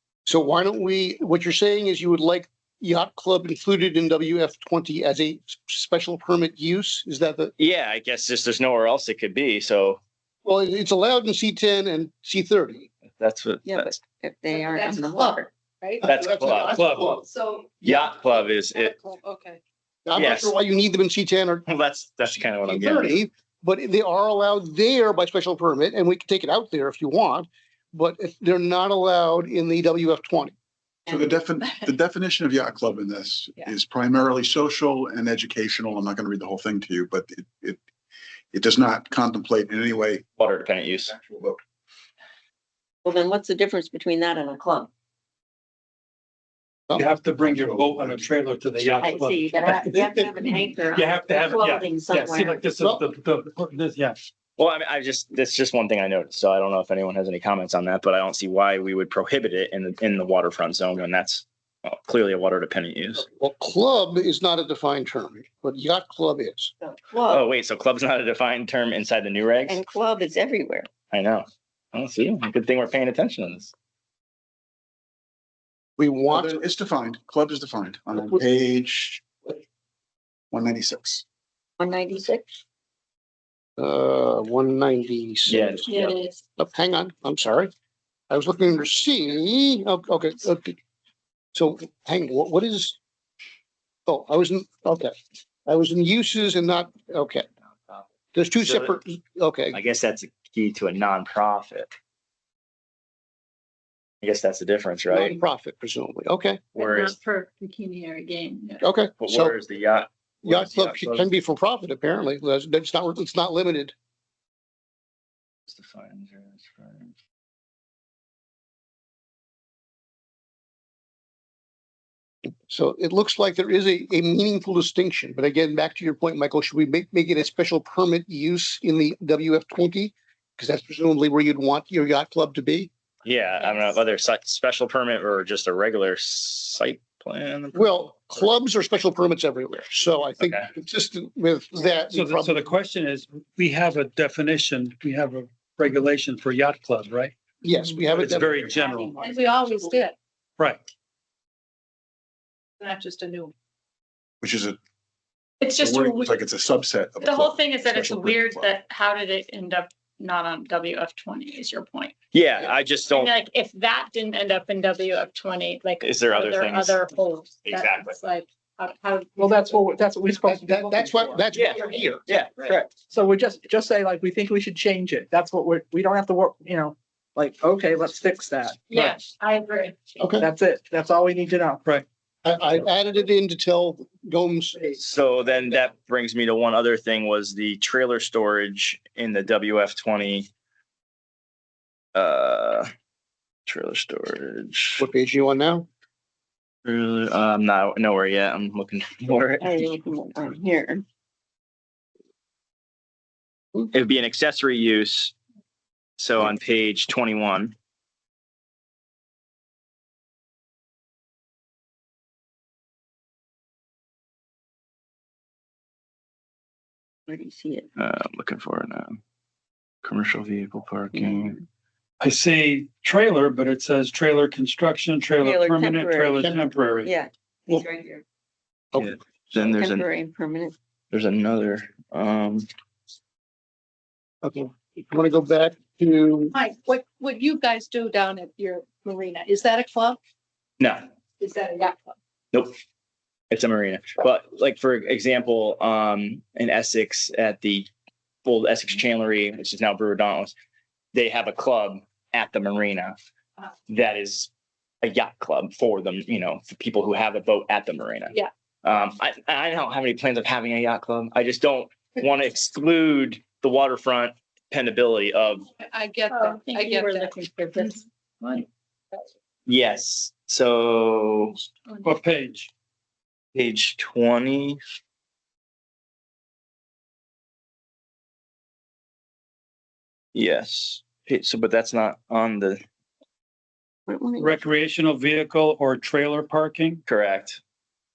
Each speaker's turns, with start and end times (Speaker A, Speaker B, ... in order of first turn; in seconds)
Speaker A: 0.2-7.5, 10.4-12.9, 16.0-17.2, 20.1-21.6, 22.2-30.5, 52.8-53.1, 63.1-66.7, 76.0-76.6, 83.8-85.9, 86.6-87.7, 88.3-90.8, 91.5-93.0, 94.0-95.1, 95.7-97.5, 98.3-99.8, 105.1-106.6, 108.8-109.5, 110.4-113.9, 122.7-132.9, 137.7-142.6, 147.6-149.4, 170.4-172.2, 180.2-180.4, 182.4-184.9, 195.0-195.9, 226.4-226.7, 228.9-229.7, 234.4-236.5
Speaker B: 7.6-10.0, 13.2-14.0, 16.0-16.8, 17.8-18.9, 20.1-20.5, 21.7-23.2, 40.4-41.1, 54.6-63.2, 67.3-69.8, 71.1-73.7, 85.5-86.2, 98.6-99.0, 99.7-101.9, 104.2-105.4, 106.7-107.2, 109.2-111.3, 115.7-117.2, 133.2-138.4, 162.3-163.3, 166.0-167.0, 167.6-168.2, 171.5-172.9, 185.0-190.5, 192.1-192.9, 193.7-195.0, 196.8-199.8, 203.9-205.3, 206.2-207.7, 218.0-219.2, 220.0-221.6, 228.9-230.1, 231.1-232.7, 243.5-247.9, 248.4-250.5, 251.1-253.1, 253.9-254.5, 255.0-265.6, 269.6-271.6, 273.5-274.8, 280.3-282.8, 287.1-287.6
Speaker C: 13.6-15.5, 43.0-44.9, 49.0-52.6, 66.8-67.4, 69.7-70.9, 81.8-82.6, 199.6-201.0, 217.3-217.9, 221.1-221.6, 225.4-226.4, 227.0-228.2, 229.7-230.7, 284.1-284.6
Speaker D: 14.5-16.1, 17.1-19.6, 149.2-150.2, 152.8-153.5, 236.5-240.2, 241.4-242.1, 265.8-267.3
Speaker E: 16.7-17.1, 46.9-54.2, 142.1-147.3, 148.1-149.1, 150.6-150.8, 222.2-227.1, 272.0-272.7, 284.4-287.0
Speaker F: 31.1-37.8, 38.5-40.2, 41.0-41.6, 47.5-48.2, 76.3-79.6, 80.5-81.2, 154.4-154.8, 155.8-158.7
Speaker G: 85.9-86.3, 106.8-108.8, 133.6-133.9, 155.6-156.4, 157.2-162.1, 163.1-169.8, 178.9-180.3, 266.3-268.6, 271.9-272.1
Speaker H: 169.4-171.5, 172.9-178.9, 180.4-181.8